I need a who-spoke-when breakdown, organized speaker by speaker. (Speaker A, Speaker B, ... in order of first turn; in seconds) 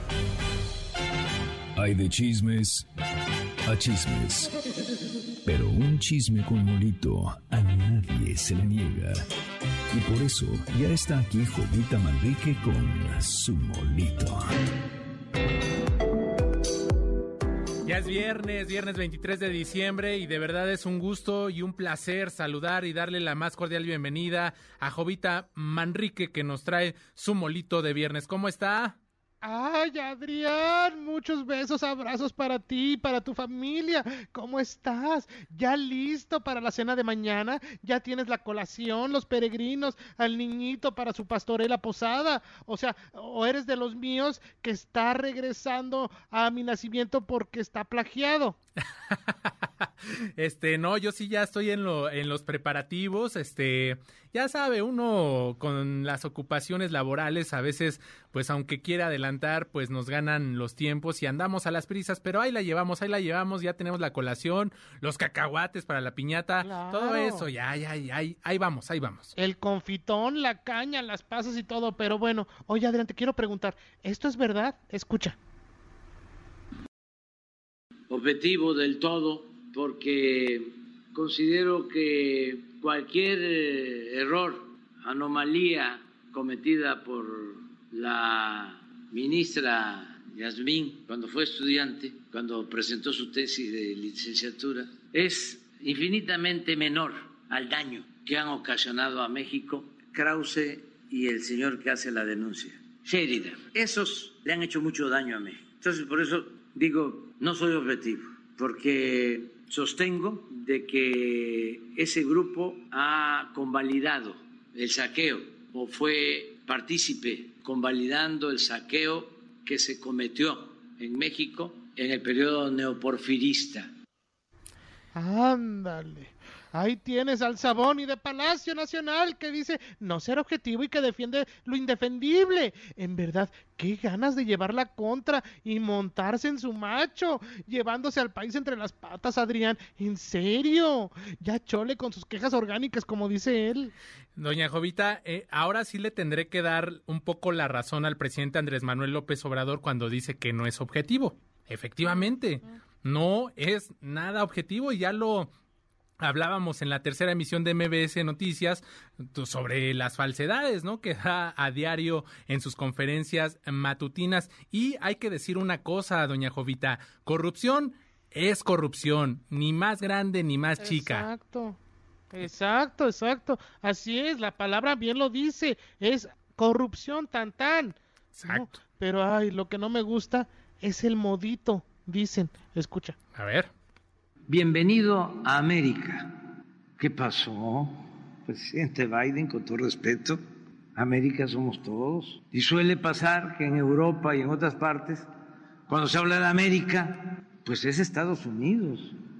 Speaker A: 1.8-2.8, 3.6-4.5, 5.4-9.2, 9.9-14.5
Speaker B: 17.8-29.0, 50.4-69.3, 144.3-155.5, 156.2-171.3, 178.4-178.7, 183.3-183.7
Speaker C: 29.4-48.6, 66.6-67.5, 69.3-75.4, 125.1-143.9, 152.1-152.3, 170.8-171.8, 172.3-183.2
Speaker D: 78.1-123.9, 184.5-186.4, 187.0-190.4, 190.9-195.3, 195.9-199.1